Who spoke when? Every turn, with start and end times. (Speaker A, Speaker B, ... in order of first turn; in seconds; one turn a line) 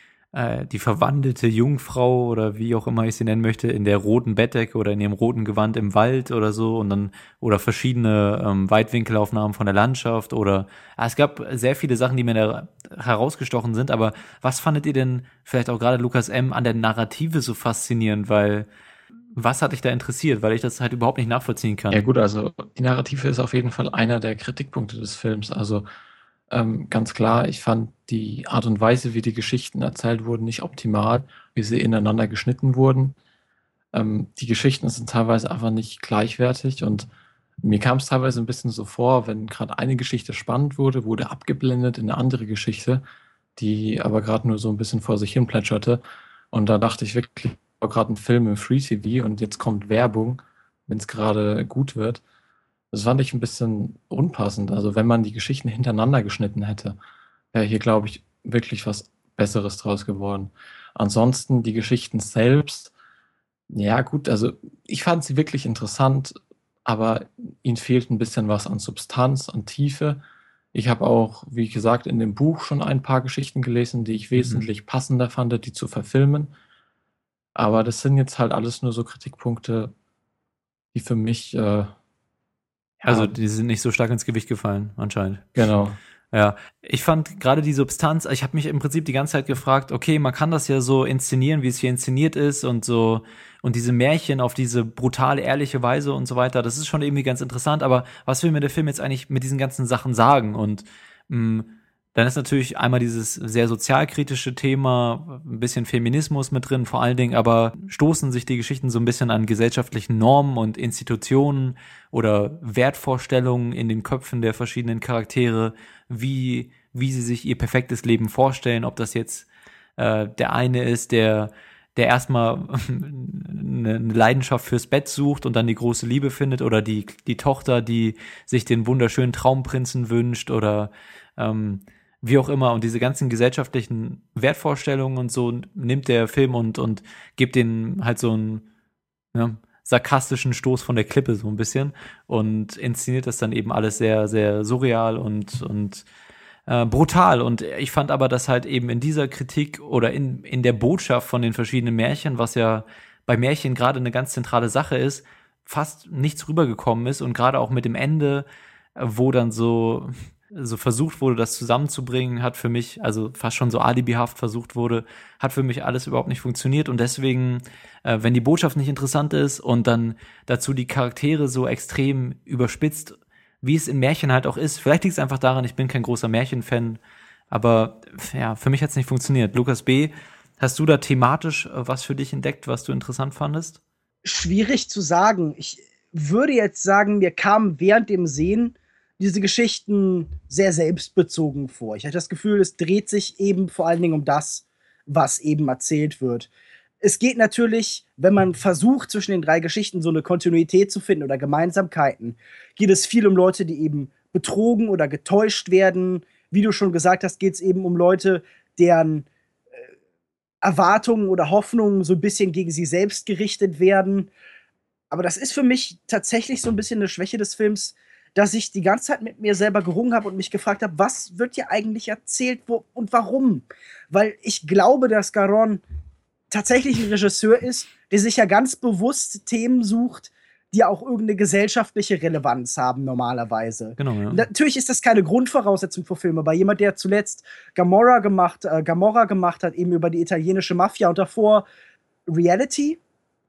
Speaker A: 0.3-18.7
Speaker A: 19.4-22.0
Speaker B: 21.9-25.9
Speaker B: 26.5-33.1
Speaker B: 33.9-37.1
Speaker B: 37.6-43.0
Speaker B: 43.5-52.2
Speaker B: 52.9-57.0
Speaker B: 57.5-62.9
Speaker B: 63.7-70.2
Speaker B: 70.7-76.5
Speaker A: 74.3-74.6
Speaker B: 77.5-79.9
Speaker B: 80.9-81.9
Speaker B: 83.0-83.3
Speaker A: 83.0-85.5
Speaker B: 85.5-86.0
Speaker A: 86.3-119.5
Speaker A: 120.0-138.6
Speaker A: 139.3-146.0
Speaker A: 146.7-177.0
Speaker A: 177.5-183.8
Speaker C: 184.2-196.5
Speaker C: 197.0-209.8
Speaker C: 210.6-214.3
Speaker C: 215.1-225.8
Speaker C: 226.5-241.6
Speaker A: 234.0-234.4
Speaker C: 242.3-243.0